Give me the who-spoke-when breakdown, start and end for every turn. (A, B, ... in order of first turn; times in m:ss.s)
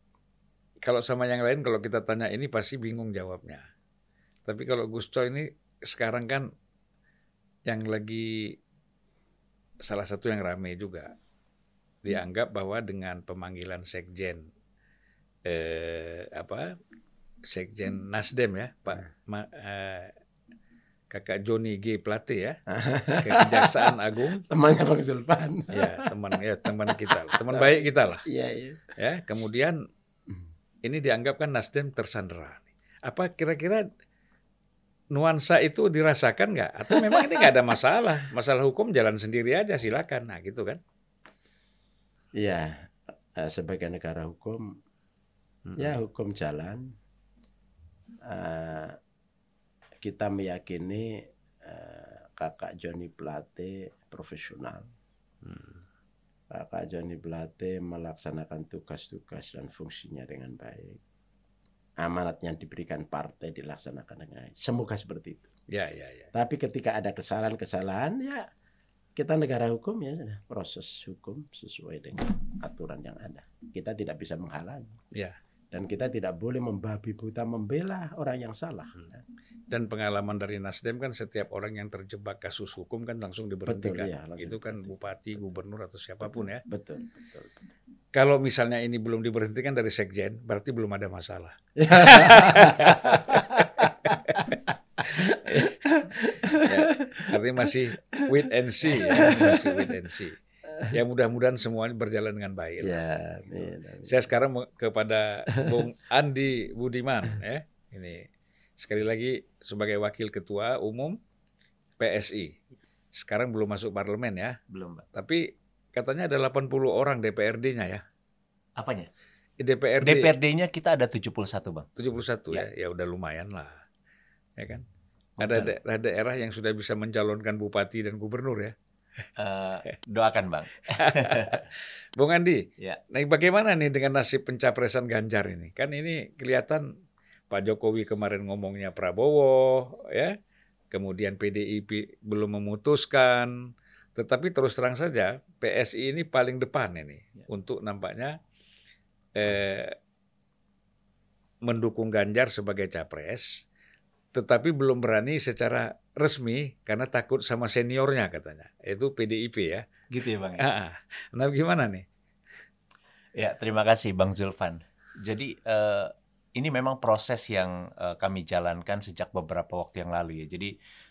0:00.8-0:03.6 A
0:04.4-0:06.5 A
0:07.7-0:08.6 A
0:09.8-0:11.1 A
0:12.0-0:14.5 A
0:15.4-0:16.8 A
0:17.5-0:20.1 A
0:21.1-0:22.6 A
0:22.7-0:23.9 B
0:23.2-0:24.4 A
0:24.5-0:26.1 B
0:25.7-0:28.2 A
0:26.9-0:27.8 B
0:28.3-0:28.8 B
0:29.0-0:29.8 A
0:30.8-0:33.9 A
0:35.1-0:40.8 A
0:36.9-0:37.4 B
0:42.4-0:44.8 B
0:45.7-0:46.0 A
0:45.8-0:46.9 B
0:48.2-0:49.0 B
0:50.0-0:54.8 B
0:55.4-0:55.8 A
0:56.5-1:01.0 B
1:02.0-1:05.5 B
1:05.7-1:06.3 A
1:06.3-1:08.5 B
1:09.2-1:15.0 B
1:15.7-1:18.9 B
1:19.7-1:26.6 A
1:23.7-1:24.9 B
1:26.3-1:27.6 B
1:28.1-1:34.4 A
1:31.8-1:34.5 B
1:35.0-1:37.4 B
1:35.2-1:35.7 A
1:36.5-1:43.0 A
1:38.9-1:39.9 B
1:42.8-1:44.3 B
1:44.0-1:48.3 A
1:48.8-1:51.2 A
1:52.0-1:52.6 A
1:53.1-1:54.6 A
1:54.7-1:55.1 C
1:55.1-1:58.0 A
1:58.8-1:59.1 C
1:59.6-2:00.3 A
2:00.0-2:01.9 C
2:02.0-2:03.8 A
2:04.6-2:04.8 A
2:05.4-2:05.7 C
2:05.4-2:08.8 A
2:09.4-2:11.6 C
2:11.0-2:16.9 A
2:17.5-2:20.4 A
2:20.9-2:23.6 A
2:24.2-2:28.4 A
2:29.4-2:30.0 A
2:31.6-2:33.6 A
2:34.3-2:39.8 A
2:40.1-2:40.6 C
2:40.6-2:42.1 A
2:43.4-2:50.7 C